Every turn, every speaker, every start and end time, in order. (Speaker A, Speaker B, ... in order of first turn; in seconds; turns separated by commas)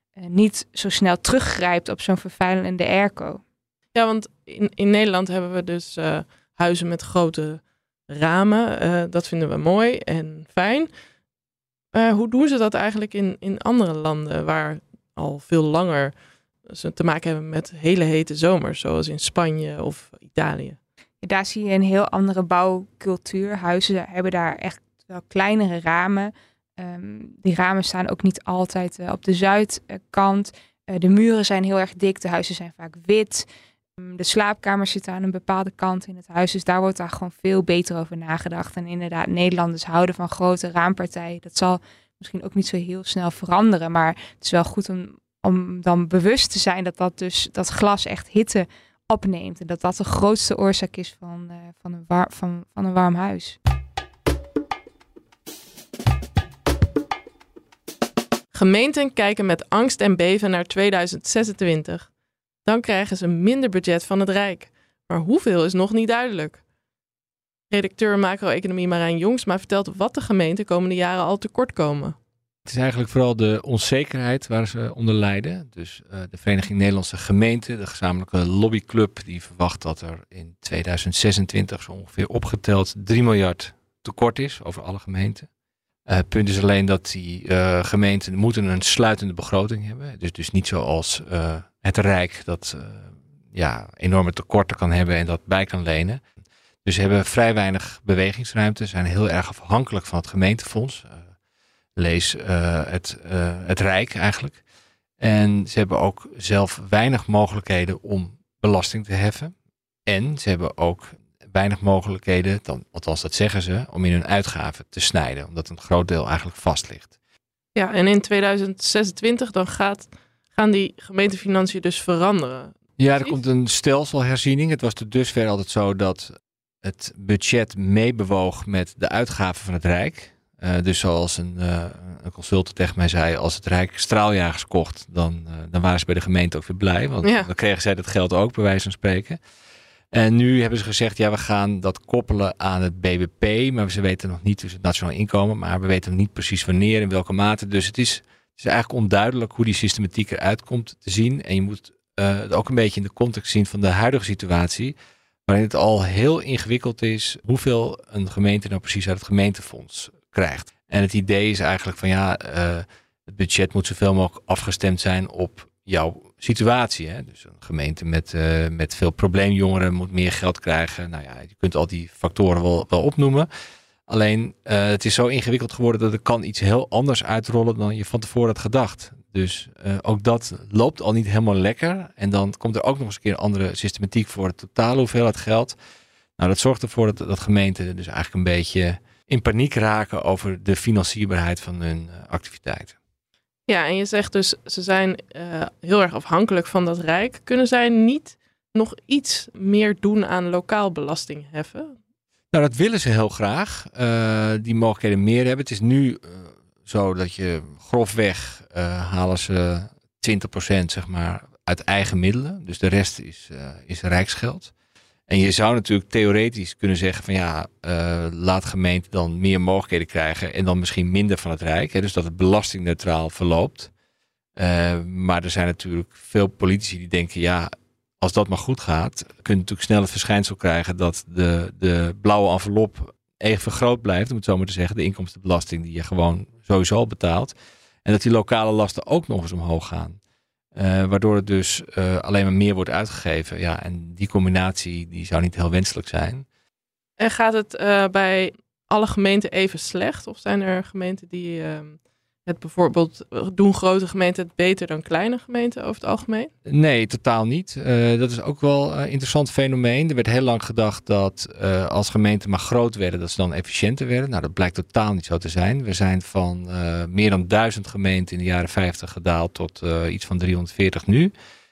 Speaker A: 0.1-3.4, Speaker B: 3.9-10.9, Speaker B: 11.9-16.1, Speaker B: 16.7-20.8, Speaker A: 21.2-33.5, Speaker A: 34.0-53.6, Speaker B: 58.5-62.1, Speaker B: 62.6-66.6, Speaker B: 67.7-72.2, Speaker C: 72.7-85.5, Speaker C: 86.1-96.2, Speaker C: 96.8-101.2, Speaker C: 102.0-104.6, Speaker C: 105.2-109.5, Speaker C: 110.0-117.1, Speaker B: 117.7-123.3, Speaker C: 123.0-139.4, Speaker B: 137.2-137.5, Speaker C: 140.1-154.9, Speaker C: 155.5-173.5, Speaker C: 174.1-185.8, Speaker C: 186.4-192.9, Speaker B: 193.7-201.9, Speaker C: 202.5-214.7, Speaker C: 215.3-223.9, Speaker C: 224.6-237.5, Speaker C: 238.0-240.2, Speaker C: 240.7-246.4, Speaker B: 247.2-256.5, Speaker C: 256.6-271.3